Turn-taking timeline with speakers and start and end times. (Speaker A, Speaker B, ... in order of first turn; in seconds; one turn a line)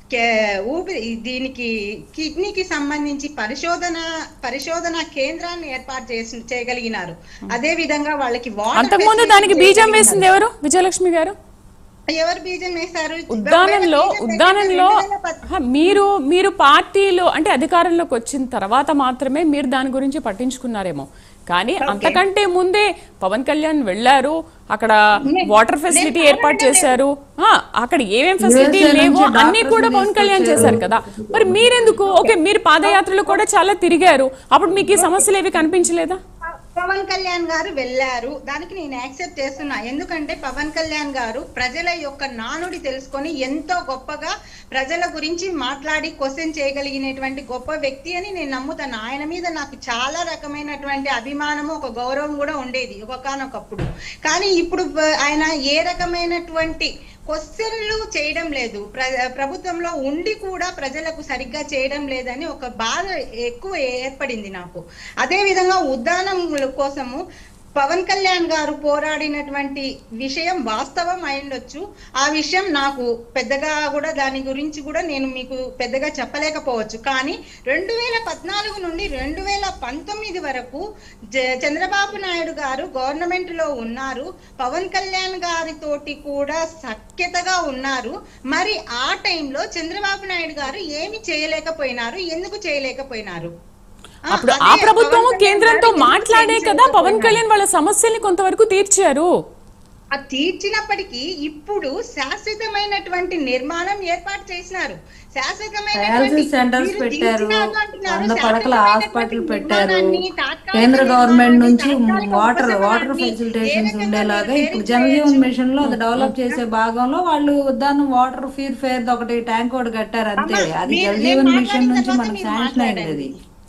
Speaker A: 0.1-10.3
Speaker B: 8.8-11.3
Speaker A: 12.1-16.0
Speaker B: 13.3-14.9
Speaker B: 15.6-36.2
Speaker A: 21.8-22.2
Speaker A: 25.2-27.0
Speaker C: 28.4-31.6
Speaker A: 32.0-33.4
Speaker A: 34.9-35.3
Speaker A: 36.6-67.2
Speaker A: 67.8-80.8
Speaker A: 81.6-93.5
Speaker B: 94.3-99.3
Speaker A: 94.3-97.4
Speaker A: 100.1-115.5
Speaker C: 106.0-110.2
Speaker C: 110.7-123.3
Speaker B: 115.8-116.3
Speaker A: 120.4-123.3